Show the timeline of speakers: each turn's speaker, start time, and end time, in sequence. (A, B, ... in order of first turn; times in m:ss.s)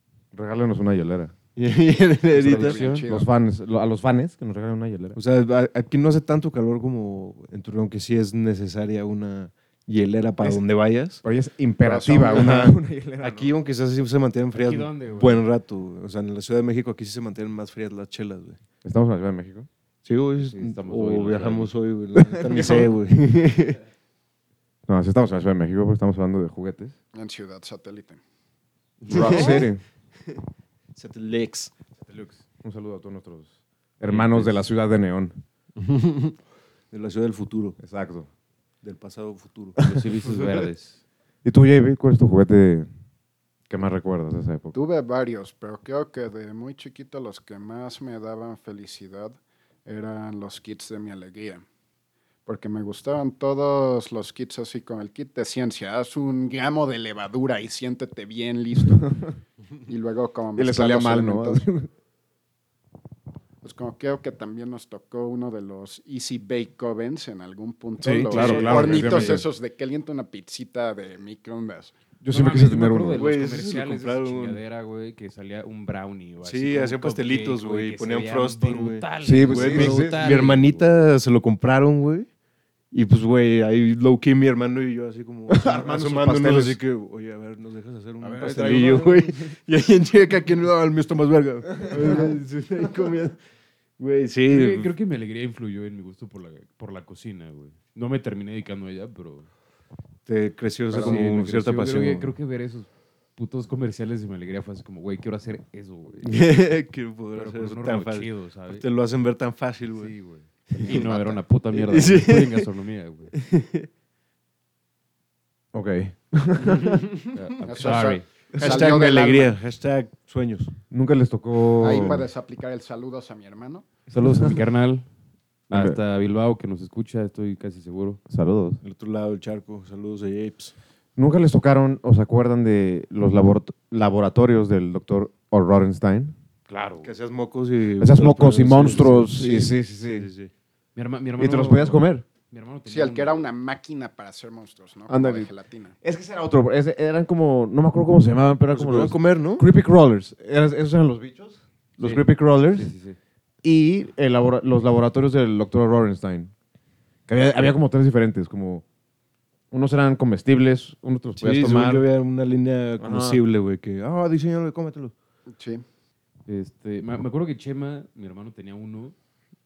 0:00.3-0:01.3 A
0:01.6-0:02.8 B
0:02.3-0:03.3 C
0:02.4-0:05.2 A
0:02.8-0:03.1 D
0:05.1-0:11.2 B
0:11.2-0:13.5 A
0:11.8-0:12.6 C
0:12.3-0:18.6 B
0:14.5-0:15.4 D
0:18.8-0:19.7 A
0:20.0-0:23.8 B
0:20.4-0:21.7 D
0:22.2-0:22.9 A
0:24.9-0:27.0 A
0:27.1-0:28.2 C
0:29.0-0:29.7 B
0:29.1-0:29.8 A
0:31.0-0:31.7 B
0:32.0-0:35.4 A
0:34.0-0:34.6 D
0:35.8-0:36.4 B
0:36.9-0:37.8 B
0:37.8-0:38.3 A
0:38.8-0:40.5 B
0:39.8-0:41.0 D
0:41.4-0:42.9 A
0:43.7-0:44.8 A
0:44.7-0:51.6 C
0:52.4-0:59.1 C
0:58.8-0:59.1 A
0:59.8-1:01.6 C
1:00.6-1:01.9 A
1:03.6-1:11.9 C
1:08.0-1:09.5 A
1:08.3-1:09.4 B
1:12.2-1:13.3 A
1:12.3-1:21.0 D
1:13.1-1:14.6 B
1:16.4-1:22.3 B
1:19.2-1:20.5 A
1:22.9-1:33.4 B
1:25.5-1:26.8 A
1:28.2-1:29.5 A
1:31.8-1:32.3 A
1:34.0-1:34.9 B
1:34.5-1:39.5 D
1:40.2-1:42.3 B
1:40.9-1:41.2 C
1:40.9-1:46.6 D
1:46.2-1:50.1 B
1:47.3-1:48.8 D
1:49.9-1:53.3 D
1:50.7-1:51.1 B
1:50.8-1:51.4 C
1:51.7-1:52.7 B
1:53.3-1:53.9 B
1:55.7-1:57.0 A
1:57.3-1:58.3 D
1:57.6-1:59.5 C
1:58.5-2:00.8 B
2:00.9-2:02.3 A
2:01.8-2:03.9 C
2:04.1-2:05.1 D
2:05.7-2:08.2 D
2:05.7-2:06.0 A
2:08.3-2:08.8 A
2:08.8-2:10.7 B
2:11.2-2:16.3 A
2:16.7-2:17.1 D
2:17.0-2:20.5 B
2:18.0-2:20.3 A
2:20.9-2:23.5 D
2:21.4-2:22.2 A
2:22.9-2:25.9 C
2:25.1-2:32.9 A
2:28.7-2:29.7 B
2:32.0-2:33.2 D
2:33.6-2:36.5 A
2:37.3-2:38.8 A
2:39.7-2:42.0 A
2:41.4-2:45.1 B
2:43.0-2:43.4 A
2:45.5-2:45.8 C
2:46.4-2:49.1 D